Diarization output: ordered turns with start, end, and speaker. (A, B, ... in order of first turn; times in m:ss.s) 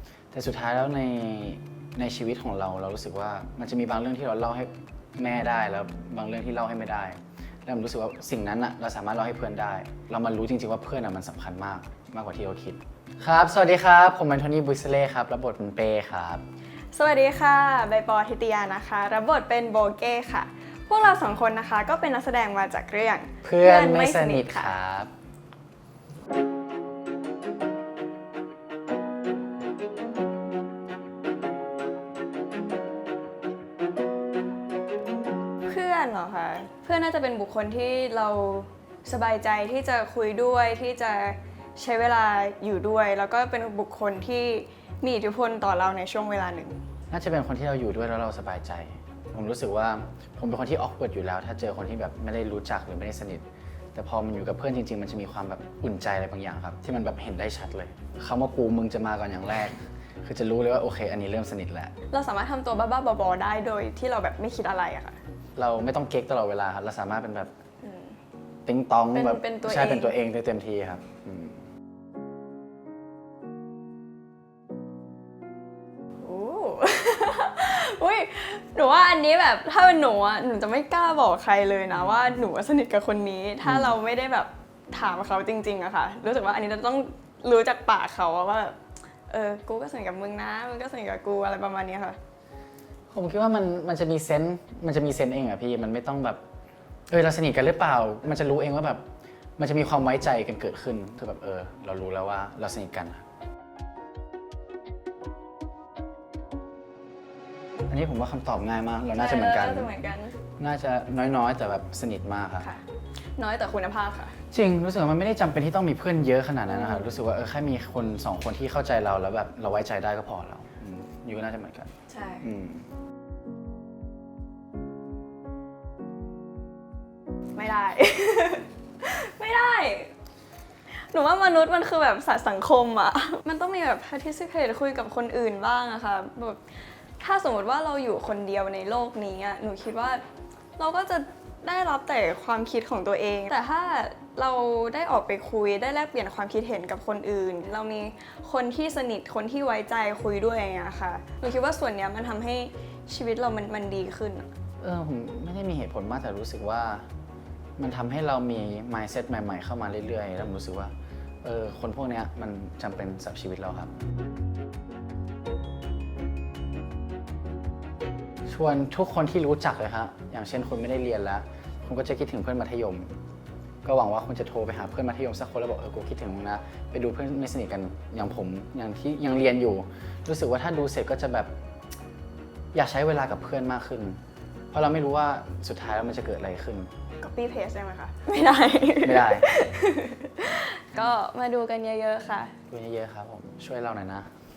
0:00.3-0:16.4 A
0:16.9-0:24.7 B
0:23.4-0:25.1 A
0:35.6-0:46.8 B
0:47.1-1:01.9 A
1:02.1-1:05.2 B
1:05.6-1:07.5 A
1:07.8-1:08.1 B
1:08.6-1:11.6 A
1:09.1-1:10.2 B
1:16.2-1:28.8 B
1:29.3-1:32.2 B
1:33.1-1:36.4 A
1:37.1-1:39.0 A
1:39.6-1:43.2 A
1:47.9-1:49.9 A
1:49.1-1:50.3 B
1:50.6-1:52.7 A
1:53.4-1:54.4 B
1:54.5-2:02.9 A
1:56.7-1:57.1 B
2:02.1-2:02.4 B
2:07.6-2:10.1 B
2:10.9-2:16.6 B
2:17.2-2:20.2 B
2:20.8-2:34.5 B
2:34.8-2:37.1 A
2:37.8-2:43.9 A
2:48.5-2:53.1 A
2:53.8-3:01.5 A
3:02.7-3:04.2 A
3:04.7-3:06.9 A
3:07.2-3:12.6 B
3:09.0-3:09.5 A
3:12.7-3:14.3 A